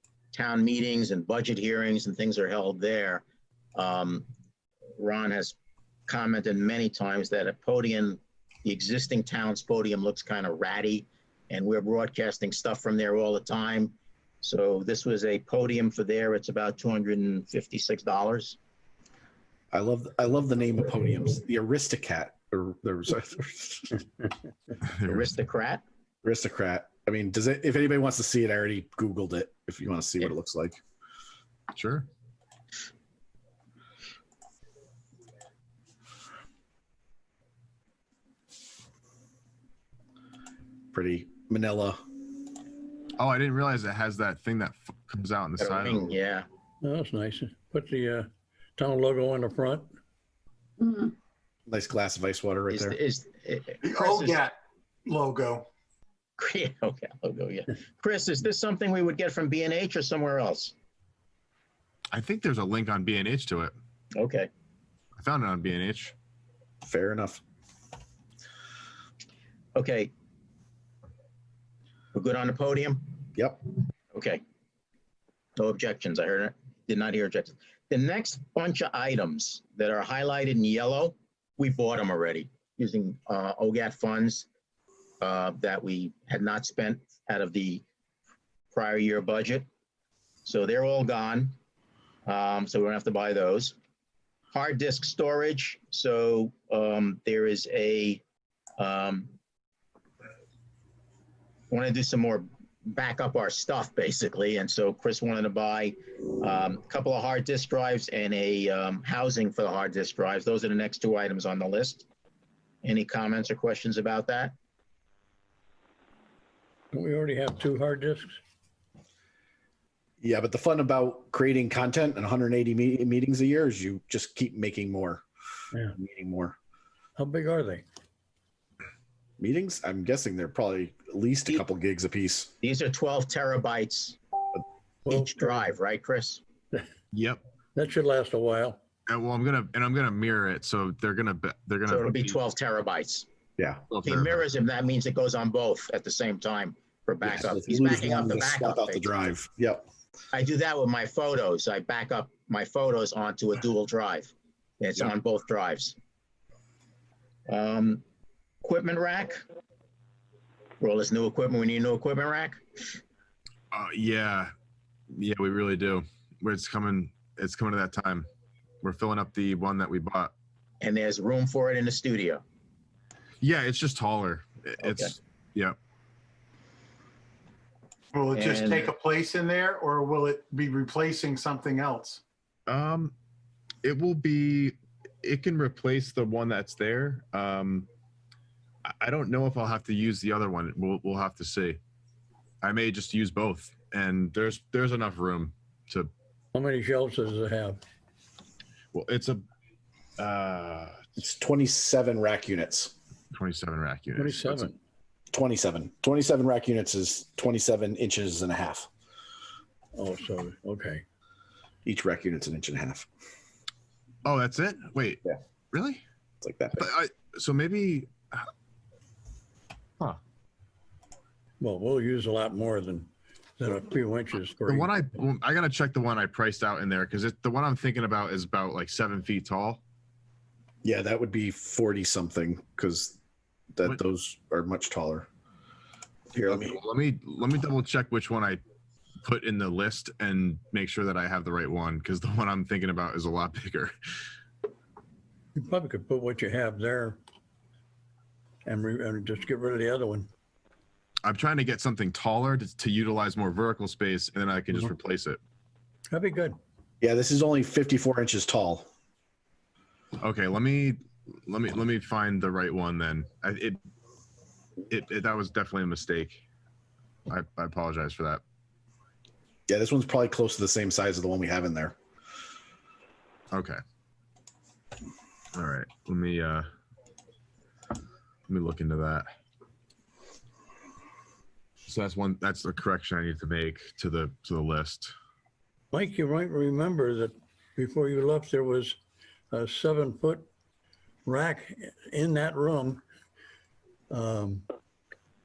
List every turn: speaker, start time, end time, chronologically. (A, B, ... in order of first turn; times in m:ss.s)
0:00.3-0:03.2 A
0:03.8-0:04.3 A
0:05.0-0:05.6 A
0:06.1-0:18.6 A
0:19.7-0:24.0 B
0:25.0-0:25.8 A
0:26.2-0:30.8 B
0:31.7-0:32.1 C
0:40.9-0:42.0 B
0:43.2-0:46.1 C
0:45.6-0:46.5 A
0:46.8-0:49.9 D
0:51.7-0:53.0 B
0:52.7-0:54.4 A
0:53.8-0:54.5 E
0:55.1-0:55.6 E
0:56.4-1:00.7 A
1:02.1-1:03.7 C
1:04.2-1:04.5 A
1:05.2-1:06.1 C
1:06.8-1:07.4 B
1:09.8-1:10.1 A
1:12.1-1:13.2 A
1:13.4-1:13.6 B
1:14.1-1:14.4 A
1:15.6-1:24.5 A
1:25.2-1:27.8 A
1:28.7-1:29.7 A
1:30.4-1:31.6 A
1:32.3-1:33.8 A
1:34.5-1:38.2 A
1:38.8-1:39.4 A
1:41.7-1:52.1 A
1:52.8-1:54.5 A
1:56.9-1:58.4 D
2:00.2-2:05.2 B
2:06.0-2:06.6 B
2:07.2-2:07.8 D
2:09.4-2:12.5 B
2:12.6-2:14.2 A
2:15.0-2:15.7 D
2:15.1-2:16.4 A
2:17.1-2:17.4 C
2:17.7-2:18.8 D
2:19.1-2:22.3 C
2:21.9-2:23.3 A
2:23.6-2:23.8 B
2:23.9-2:24.4 C
2:24.0-2:29.1 A
2:27.2-2:29.8 B
2:30.3-2:36.0 A
2:37.5-2:38.0 A
2:38.6-2:39.4 A
2:40.8-2:43.0 A
2:43.7-2:44.5 C
2:45.1-2:48.3 C
2:48.8-2:50.3 C
2:50.8-2:52.4 A
2:53.4-2:55.8 C
2:54.8-2:55.1 A
2:58.2-3:02.2 E
2:58.4-2:58.9 A
3:02.7-3:03.1 C
3:03.8-3:07.9 C
3:08.9-3:11.8 C
3:12.6-3:16.1 C
3:16.5-3:17.8 D
3:18.9-3:19.4 C
3:20.2-3:21.0 C
3:21.2-3:23.0 B
3:23.3-3:24.7 C
3:24.2-3:24.8 D
3:25.3-3:28.9 B
3:30.0-3:31.0 D
3:31.8-3:33.1 B
3:34.2-3:36.0 C
3:36.4-3:36.9 B
3:36.8-3:38.5 C
3:41.6-3:45.1 D
3:44.6-3:49.8 C
3:50.8-3:53.2 B
3:53.7-3:55.3 B
3:56.3-3:56.8 B
3:56.4-3:58.6 C
3:59.2-4:03.9 C
4:05.6-4:07.2 D
4:08.6-4:10.3 D
4:11.2-4:15.4 C
4:16.1-4:16.6 D
4:17.0-4:18.9 B
4:20.2-4:23.8 C
4:24.9-4:26.4 C
4:27.3-4:28.4 C
4:29.7-4:32.0 B
4:33.5-4:33.8 C
4:35.5-4:36.7 C
4:38.5-4:39.3 C
4:41.9-4:45.1 C
4:45.9-4:49.0 D
4:49.5-4:50.5 D
4:51.2-4:53.0 D
4:54.1-4:54.7 D